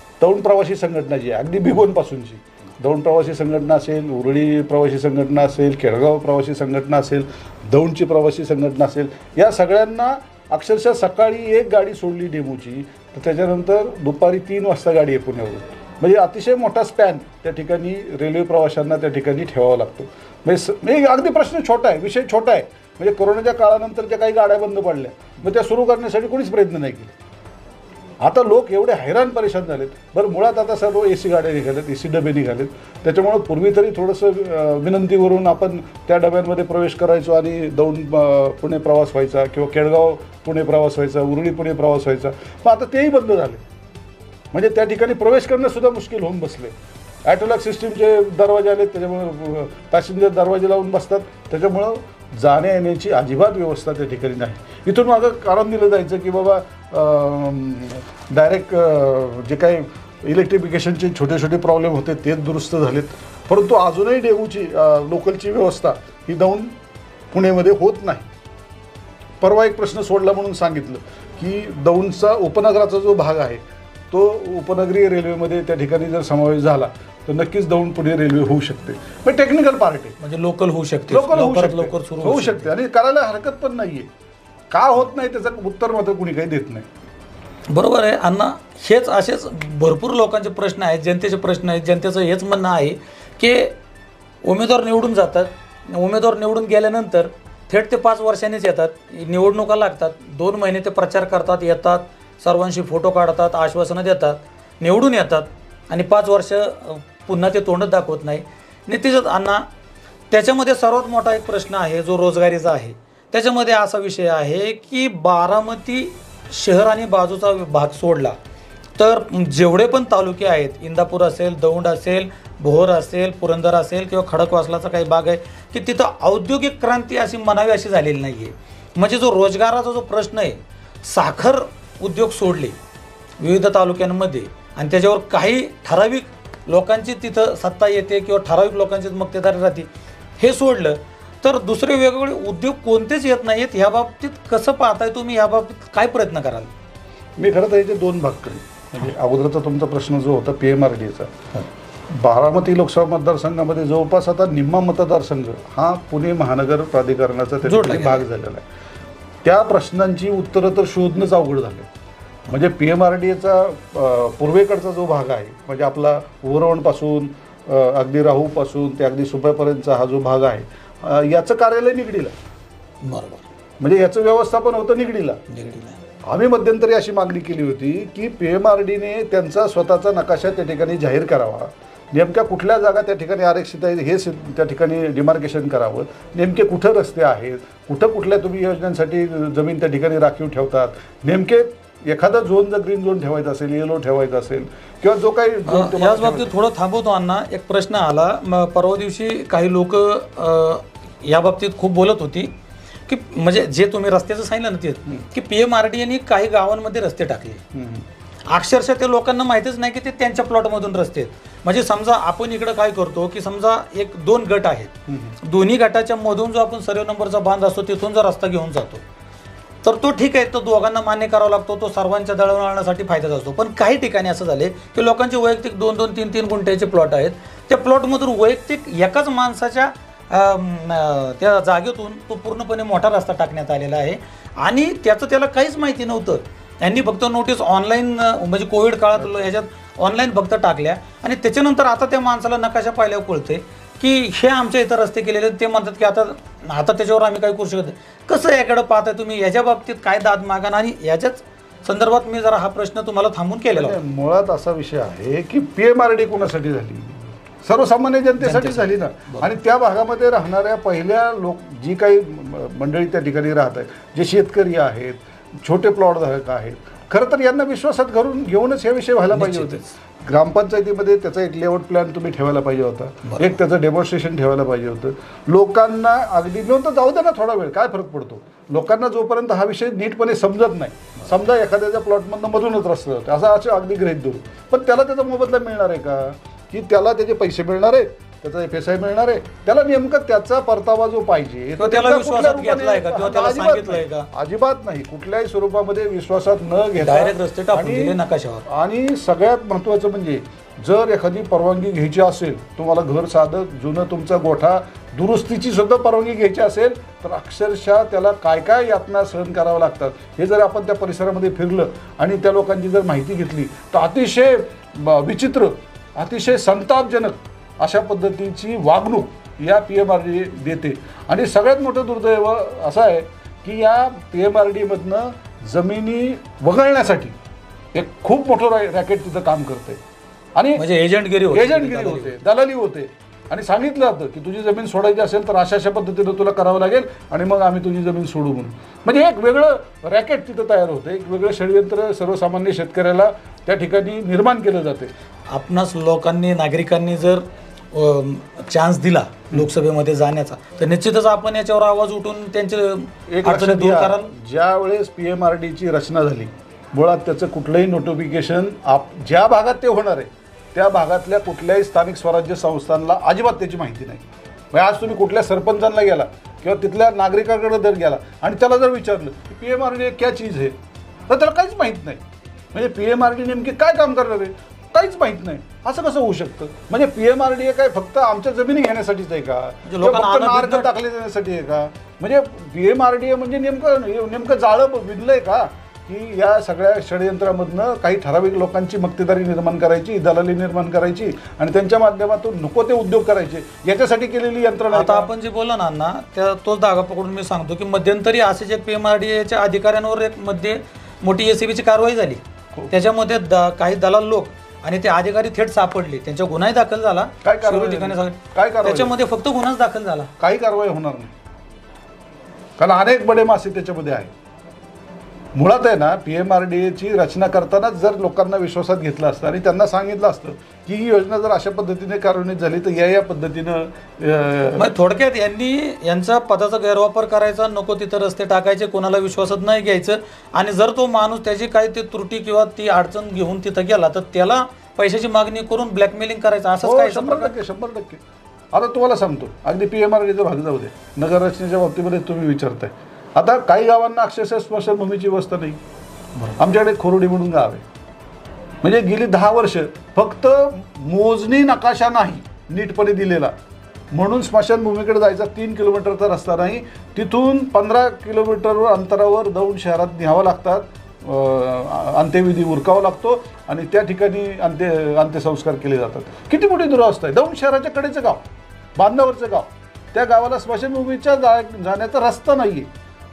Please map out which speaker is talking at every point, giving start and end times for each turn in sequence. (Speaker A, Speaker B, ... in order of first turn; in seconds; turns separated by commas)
Speaker A: 0.2-27.1, Speaker A: 28.2-43.6, Speaker A: 44.5-66.8, Speaker A: 67.3-68.3, Speaker A: 69.4-80.2, Speaker B: 80.2-82.7, Speaker A: 81.1-84.1, Speaker A: 84.7-86.9, Speaker B: 87.7-93.8, Speaker B: 94.4-109.7, Speaker B: 110.3-118.3, Speaker B: 119.0-132.8, Speaker B: 133.4-146.7, Speaker A: 147.4-151.3, Speaker A: 152.1-158.7, Speaker B: 157.6-158.2, Speaker A: 159.4-161.9, Speaker A: 162.5-172.3, Speaker B: 173.0-173.4, Speaker A: 173.8-175.4, Speaker B: 175.5-176.0, Speaker A: 176.2-196.5, Speaker B: 195.7-202.5, Speaker B: 203.1-207.6, Speaker A: 207.7-208.1, Speaker B: 208.5-219.0, Speaker A: 215.1-215.4, Speaker B: 219.8-254.0, Speaker A: 239.2-239.5, Speaker A: 253.7-327.4, Speaker B: 258.4-259.5, Speaker B: 269.3-269.9, Speaker B: 273.2-273.5, Speaker B: 291.8-294.3, Speaker B: 297.0-298.6, Speaker A: 327.9-330.0, Speaker A: 330.6-330.8, Speaker B: 330.7-332.4, Speaker A: 331.5-345.1, Speaker B: 345.5-354.3, Speaker A: 353.3-370.8, Speaker A: 371.3-395.3, Speaker B: 379.9-380.9, Speaker B: 394.9-410.3, Speaker A: 407.4-409.1, Speaker A: 410.4-411.3, Speaker A: 412.8-414.3, Speaker A: 415.5-424.9, Speaker B: 424.8-437.5, Speaker A: 436.8-438.2, Speaker A: 438.7-445.8, Speaker A: 446.6-447.8, Speaker A: 448.8-453.5, Speaker A: 454.1-468.4, Speaker A: 468.9-472.9